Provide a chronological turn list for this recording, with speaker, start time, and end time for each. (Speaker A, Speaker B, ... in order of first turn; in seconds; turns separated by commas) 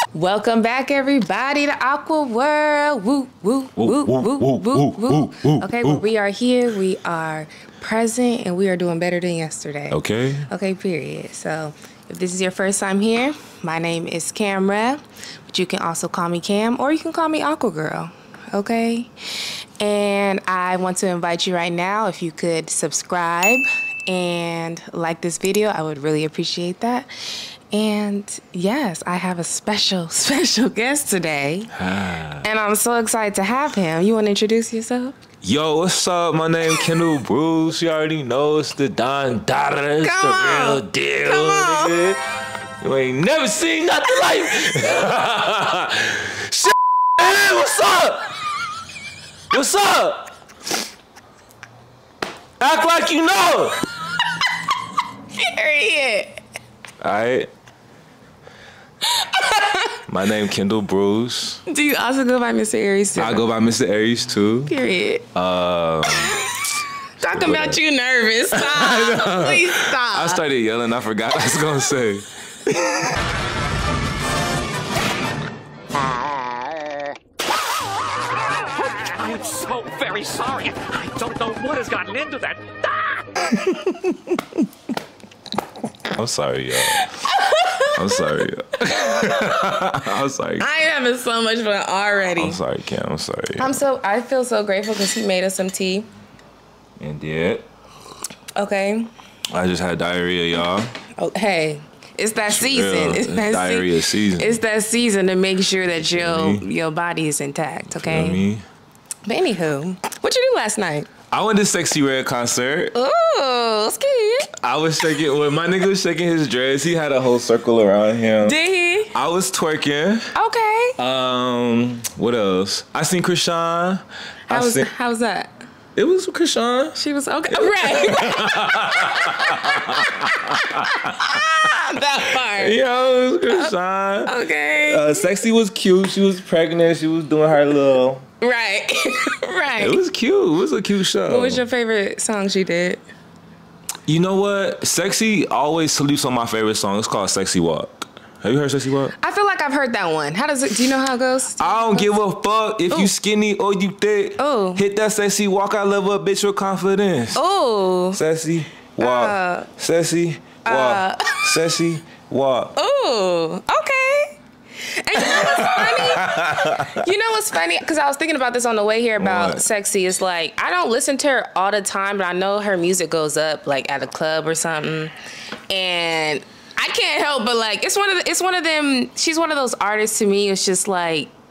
Speaker A: 0.1-31.7, Speaker B: 3.8-6.0, Speaker B: 9.9-10.5, Speaker B: 31.7-32.5, Speaker A: 32.4-35.2, Speaker B: 35.4-48.4, Speaker A: 40.0-42.2, Speaker B: 49.5-50.3, Speaker B: 52.6-53.9, Speaker A: 55.3-56.4, Speaker B: 57.0-57.5, Speaker A: 59.0-60.0, Speaker B: 60.1-61.6, Speaker A: 61.7-63.4, Speaker B: 63.2-64.7, Speaker A: 64.7-65.3, Speaker B: 65.3-66.6, Speaker B: 67.2-67.8, Speaker A: 67.2-70.4, Speaker B: 68.5-72.3, Speaker C: 78.7-83.3, Speaker B: 86.1-87.1, Speaker A: 86.8-89.8, Speaker B: 87.9-90.7, Speaker A: 90.6-92.6, Speaker B: 92.4-93.8, Speaker A: 93.6-96.1, Speaker B: 97.0-97.7, Speaker A: 98.5-99.1, Speaker B: 99.5-101.0, Speaker A: 101.2-108.4, Speaker B: 102.4-104.6, Speaker B: 105.9-106.7, Speaker B: 107.9-108.6, Speaker A: 109.3-111.1, Speaker B: 111.3-113.0, Speaker A: 113.0-114.5, Speaker B: 114.5-118.6, Speaker A: 118.4-119.1, Speaker B: 119.1-120.3, Speaker A: 120.3-121.0, Speaker B: 121.0-124.9, Speaker A: 124.5-125.5, Speaker B: 126.0-131.4, Speaker A: 127.0-132.8, Speaker B: 132.3-138.3, Speaker A: 134.2-135.4, Speaker A: 138.4-140.0, Speaker B: 139.8-141.6, Speaker A: 141.3-143.0, Speaker B: 144.1-149.2, Speaker A: 149.2-152.2, Speaker B: 151.6-157.4, Speaker A: 154.4-154.8, Speaker A: 157.3-158.2, Speaker B: 158.1-162.8, Speaker A: 159.0-159.7, Speaker A: 160.7-161.6, Speaker A: 162.8-175.1, Speaker B: 165.2-167.0, Speaker B: 169.2-169.7, Speaker A: 175.7-181.3